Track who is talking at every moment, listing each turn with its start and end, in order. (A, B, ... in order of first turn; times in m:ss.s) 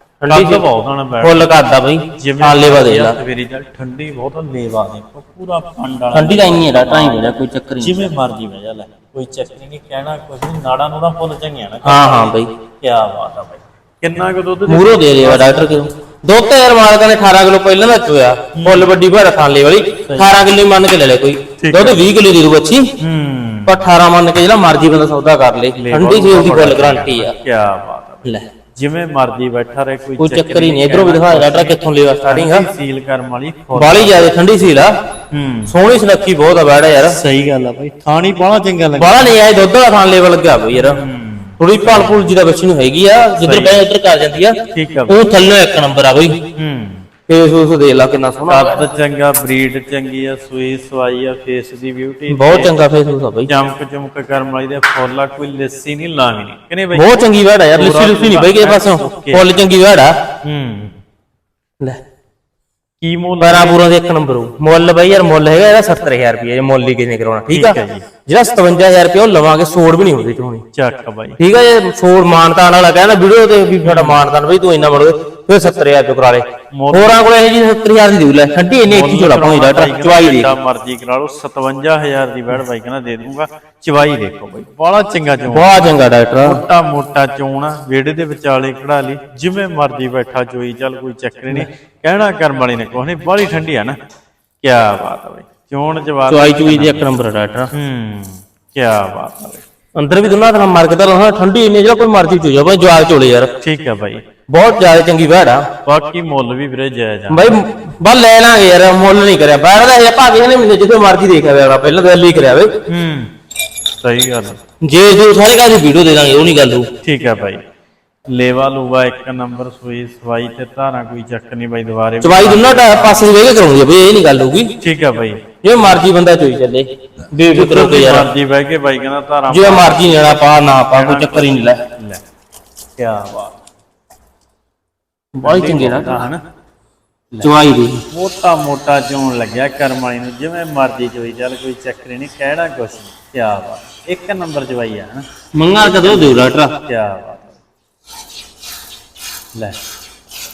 0:00.2-0:00.6 A
0:00.3-0:01.5 B
0:01.2-0:03.2 A
0:02.2-0:15.7 B
0:06.1-0:08.1 A
0:11.8-0:12.5 A
0:14.7-0:22.9 A
0:18.5-0:18.9 B
0:20.1-0:20.4 B
0:21.6-0:22.0 B
0:23.0-0:23.9 B
0:23.7-0:27.3 A
0:25.8-0:34.3 B
0:30.2-0:32.7 A
0:33.8-0:34.9 A
0:35.3-0:35.8 B
0:35.7-0:37.2 A
0:37.1-0:39.4 B
0:39.0-0:41.0 A
0:40.7-0:42.2 B
0:41.6-0:44.6 A
0:43.4-0:43.8 B
0:44.7-0:45.2 B
0:45.1-0:46.4 A
0:46.6-0:47.0 B
0:47.3-0:48.9 A
0:48.5-0:52.7 B
0:52.3-0:53.5 A
0:53.5-0:59.4 B
0:56.9-1:00.2 A
1:00.4-1:01.0 B
1:03.0-1:03.8 B
1:03.4-1:10.6 A
1:07.5-1:08.1 B
1:10.7-1:11.4 B
1:11.4-1:20.5 A
1:13.8-1:14.2 B
1:16.7-1:17.2 B
1:18.9-1:34.0 B
1:25.5-1:26.6 A
1:34.6-1:37.1 B
1:36.3-1:37.7 A
1:37.7-1:39.6 B
1:40.0-1:43.5 A
1:43.6-1:44.2 B
1:44.5-1:45.7 A
1:45.8-1:47.6 B
1:47.3-1:52.7 A
1:52.9-1:53.3 B
1:54.0-1:54.6 B
1:54.8-1:56.9 A
1:57.0-1:57.6 B
1:58.3-2:03.2 B
2:02.2-2:04.7 A
2:04.8-2:05.4 B
2:05.6-2:08.3 A
2:07.5-2:12.2 B
2:09.5-2:11.8 A
2:13.0-2:13.6 B
2:15.4-2:16.2 A
2:15.4-2:16.4 B
2:17.4-2:18.0 A
2:18.1-2:27.6 B
2:25.6-2:26.7 A